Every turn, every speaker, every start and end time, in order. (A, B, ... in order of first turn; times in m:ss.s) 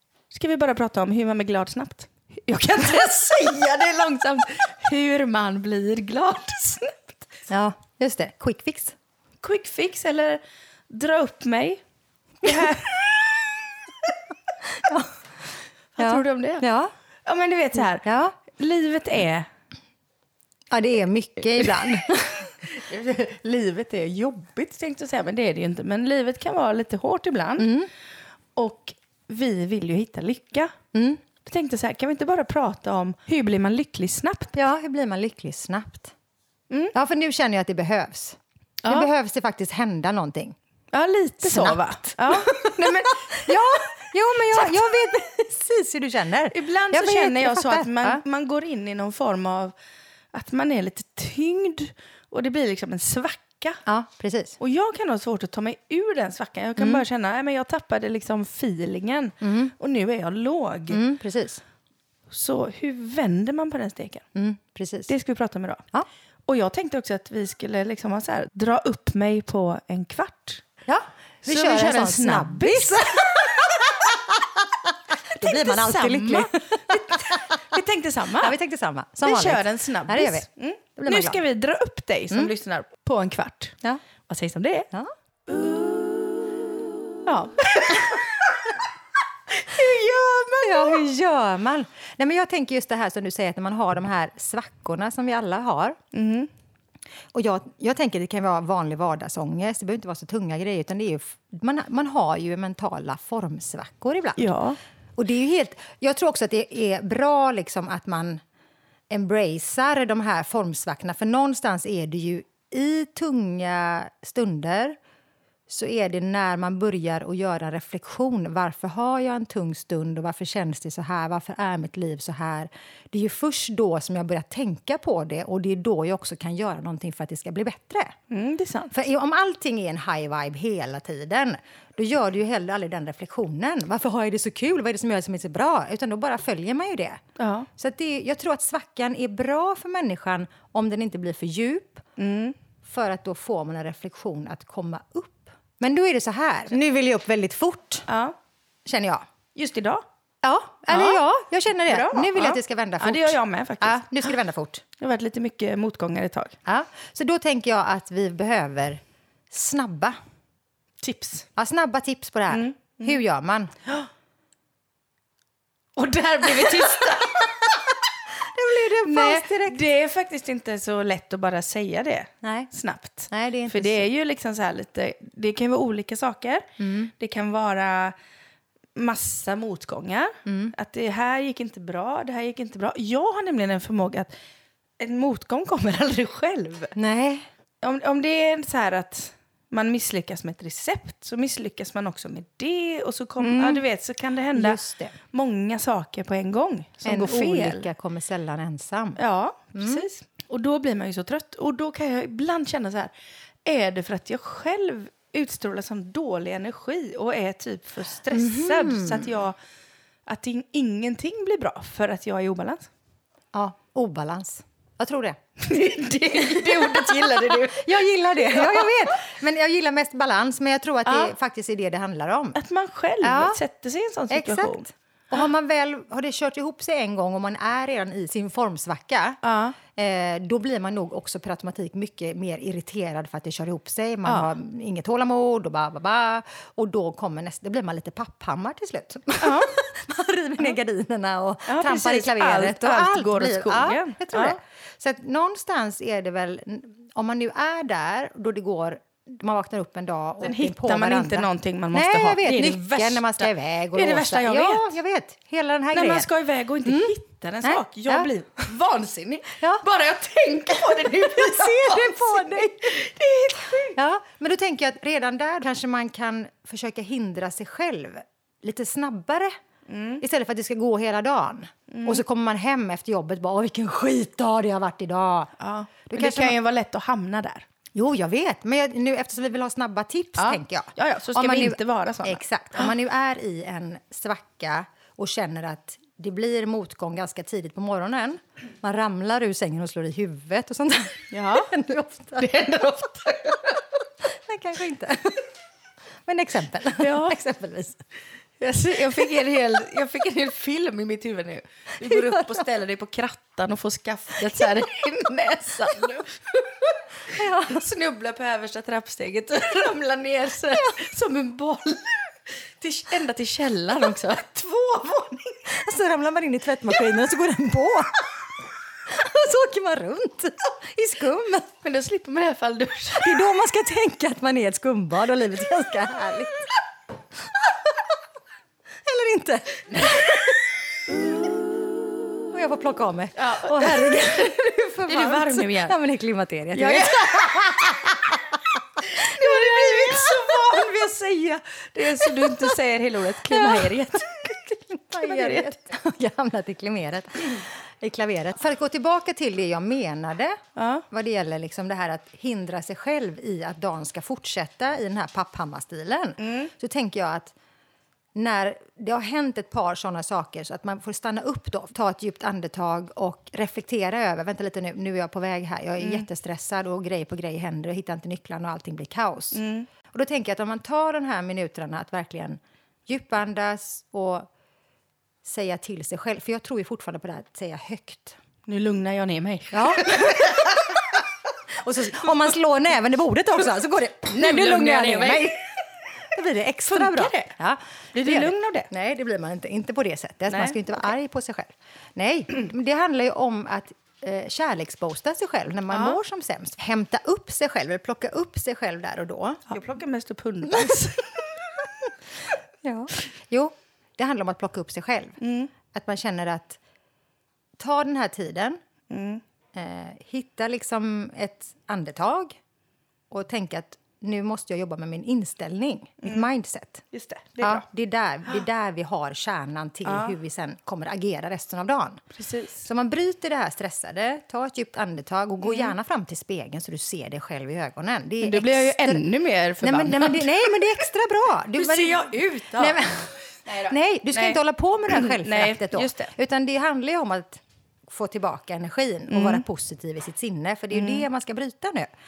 0:00.3-0:07.4 A
0:07.5-0:09.0 B
0:09.4-0:11.8 A
0:12.4-0:13.6 A
0:14.8-0:15.1 B
0:16.0-0:16.7 A
0:16.0-0:16.9 B
0:17.2-0:19.5 A
0:18.0-0:18.3 B
0:20.7-0:22.5 B
0:21.6-0:21.9 A
0:22.4-0:27.8 A
0:27.6-0:27.9 B
0:28.6-0:30.7 A
0:30.9-0:31.2 B
0:31.4-0:34.6 A
0:34.5-0:36.1 B
0:36.9-0:40.6 B
0:38.8-0:39.1 A
0:40.9-0:43.9 A
0:41.4-0:48.2 B
0:44.5-0:44.9 A
0:46.5-0:49.7 A
0:50.3-0:53.8 A
0:53.9-0:54.6 B
0:54.6-1:01.0 A
0:56.8-0:57.0 B
0:59.4-0:59.7 B
1:00.9-1:01.6 B
1:02.3-1:04.2 A
1:04.3-1:05.1 B
1:05.1-1:05.8 A
1:06.5-1:10.6 A
1:10.9-1:17.8 B
1:11.4-1:13.4 A
1:15.4-1:18.6 A
1:18.4-1:20.5 B
1:19.2-1:24.9 A
1:21.0-1:21.4 B
1:25.5-1:25.9 A
1:27.2-1:28.7 A
1:29.5-1:31.0 A
1:30.6-1:36.0 B
1:36.1-1:36.5 A
1:37.3-1:44.6 B
1:44.4-1:44.8 A
1:45.2-1:48.4 B
1:49.1-1:55.0 B
1:55.7-2:08.1 B
2:08.3-2:08.9 A
2:08.9-2:17.2 B
2:17.4-2:17.7 A
2:17.8-2:22.0 B
2:22.2-2:22.6 A
2:22.8-2:28.1 B
2:28.1-2:28.4 A
2:28.8-2:29.2 B
2:29.5-2:31.2 A
2:30.5-2:34.8 B
2:31.9-2:34.4 A
2:35.0-2:36.6 A
2:36.7-2:40.2 B
2:41.0-2:41.5 A
2:41.6-2:43.7 B
2:42.5-2:43.2 A
2:46.0-2:47.9 A
2:48.5-2:49.8 B
2:49.0-2:56.7 A
2:52.4-2:52.7 B
2:53.3-2:54.1 B
2:56.8-2:57.1 B
2:57.2-2:58.2 A
2:59.0-3:04.3 A
3:00.5-3:00.8 B
3:05.0-3:07.0 A
3:07.0-3:07.4 B
3:07.8-3:17.9 A
3:13.4-3:13.9 B
3:14.5-3:15.2 B
3:17.0-3:19.2 B
3:19.2-3:23.1 A
3:19.8-3:20.1 B
3:23.6-3:29.6 A
3:28.3-3:29.3 B
3:30.3-3:32.9 A
3:33.5-3:35.4 B
3:35.6-3:39.2 A
3:36.5-3:42.6 B
3:41.1-3:41.4 A
3:42.6-3:44.9 A
3:43.2-3:43.6 B
3:44.3-3:49.4 B
3:49.4-3:49.8 A
3:49.9-4:16.3 B
3:54.3-3:54.5 A
3:59.4-3:59.8 A
4:01.7-4:04.6 A
4:10.4-4:15.0 A
4:15.9-4:24.0 A
4:16.8-4:17.1 B
4:17.6-4:18.3 B
4:21.0-4:22.9 B
4:24.0-4:29.5 B
4:29.9-4:30.2 A
4:30.2-4:35.5 B
4:31.9-4:32.2 A
4:35.6-4:37.7 A
4:36.1-4:36.6 B
4:38.0-4:52.8 B
4:40.4-4:42.9 A
4:51.3-4:51.7 A
4:52.4-4:53.8 A
4:54.3-4:55.5 B
4:56.3-4:58.0 B
4:57.0-4:57.4 A
4:58.6-5:15.7 A
5:02.1-5:02.5 B
5:07.4-5:07.9 B
5:15.7-5:18.4 B
5:19.1-5:21.7 B
5:21.8-5:23.5 A
5:23.1-5:26.7 B
5:29.1-5:30.6 B
5:32.5-5:38.4 B
5:33.4-5:36.0 A
5:36.7-5:38.0 A
5:39.0-5:44.4 A
5:39.2-5:41.1 B
5:42.2-5:42.8 B
5:43.5-5:50.6 B
5:45.2-5:45.8 A
5:50.8-5:51.0 A
5:51.1-5:57.5 B
5:56.4-5:56.7 A
5:58.4-6:14.5 B
6:06.0-6:06.3 A
6:09.5-6:09.9 A
6:15.4-6:18.4 B
6:18.7-6:20.8 A
6:19.7-6:21.0 B
6:21.8-6:25.6 B
6:24.3-6:25.7 A
6:26.3-6:39.7 B
6:26.9-6:27.5 A
6:28.1-6:28.9 A
6:30.5-6:31.1 A
6:35.9-6:36.2 A
6:39.7-6:41.5 A
6:42.8-6:45.4 B
6:45.4-6:45.7 A
6:45.9-6:46.8 B
6:47.8-6:48.8 B
6:49.1-6:49.4 A
6:49.7-6:52.6 B
6:53.3-6:57.0 B
6:56.2-6:56.5 A
6:57.1-6:57.8 A
6:57.6-7:02.2 B
7:00.0-7:00.4 A
7:02.4-7:02.9 A
7:02.8-7:09.3 B
7:05.6-7:05.9 A
7:08.4-7:10.7 A
7:09.8-7:22.1 B
7:11.7-7:13.0 A
7:13.6-7:16.3 A
7:19.3-7:19.6 A
7:20.9-7:21.3 A